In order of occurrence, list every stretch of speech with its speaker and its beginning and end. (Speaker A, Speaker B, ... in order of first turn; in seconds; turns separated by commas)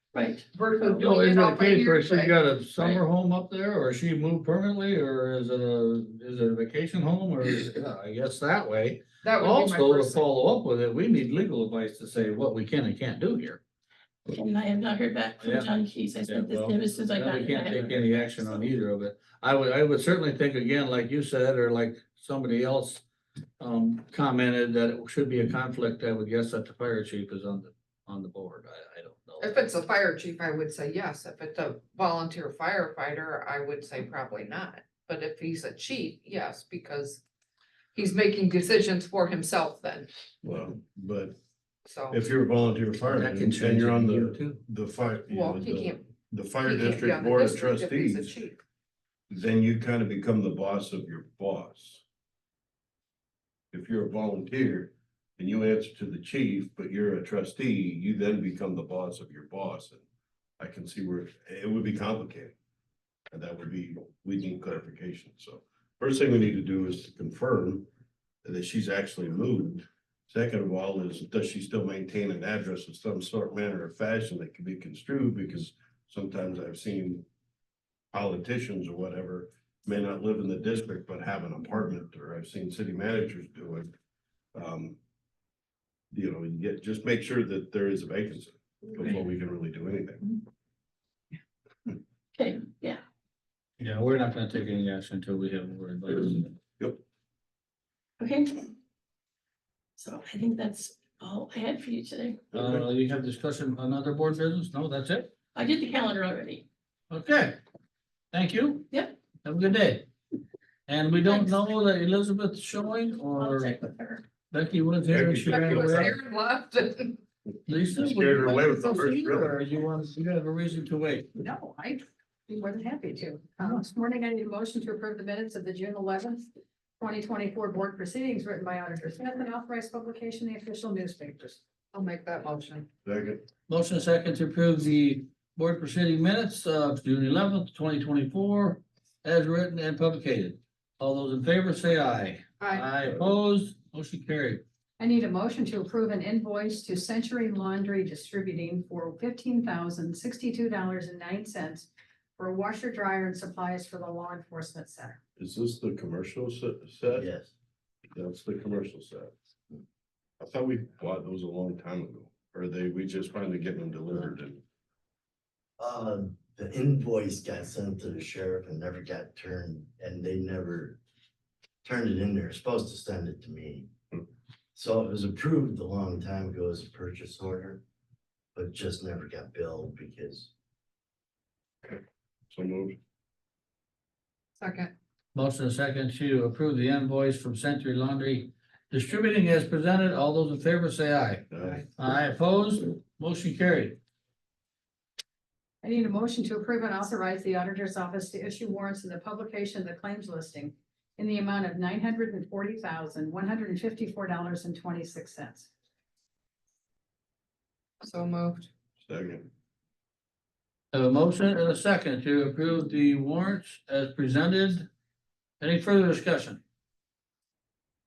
Speaker A: 0.1-0.5, Speaker B: 0.5-3.0, Speaker C: 0.8-13.6, Speaker B: 9.2-10.2, Speaker A: 14.3-18.4, Speaker C: 15.4-23.0, Speaker C: 23.6-29.7, Speaker B: 29.4-37.2, Speaker B: 37.9-40.1, Speaker D: 40.4-41.4, Speaker B: 41.9-42.2, Speaker D: 42.1-48.4, Speaker C: 43.1-44.6, Speaker B: 45.3-48.6, Speaker D: 49.3-52.0, Speaker D: 53.7-60.0, Speaker D: 60.6-62.5, Speaker D: 63.3-67.9, Speaker D: 68.4-77.3, Speaker D: 78.1-83.9, Speaker D: 84.5-85.0, Speaker D: 86.1-90.4, Speaker A: 92.3-93.0, Speaker C: 93.8-96.6, Speaker A: 98.2-98.7, Speaker A: 100.0-102.4, Speaker D: 102.5-102.8, Speaker C: 102.5-105.3, Speaker A: 105.5-106.7, Speaker C: 107.1-107.6, Speaker C: 108.3-108.9, Speaker C: 109.4-110.1, Speaker C: 110.9-113.8, Speaker A: 111.2-111.6, Speaker A: 113.4-114.2, Speaker C: 114.5-116.2, Speaker D: 115.1-116.1, Speaker B: 115.5-117.2, Speaker C: 117.7-121.3, Speaker D: 118.0-119.6, Speaker E: 121.4-126.5, Speaker E: 127.0-131.6, Speaker B: 131.9-132.9, Speaker D: 133.1-133.4, Speaker C: 133.7-144.6, Speaker B: 142.6-142.9, Speaker E: 145.0-155.2, Speaker D: 155.4-157.3, Speaker F: 157.1-157.5, Speaker D: 158.2-159.3, Speaker D: 160.4-164.6, Speaker F: 165.8-171.0, Speaker F: 171.8-173.9, Speaker F: 174.8-177.8, Speaker F: 178.6-180.5, Speaker D: 181.8-183.0, Speaker B: 184.6-184.9, Speaker C: 185.3-194.0, Speaker D: 191.5-191.8, Speaker E: 195.8-205.7, Speaker B: 208.0-208.7, Speaker D: 209.0-209.5, Speaker C: 210.9-214.9, Speaker C: 215.6-216.6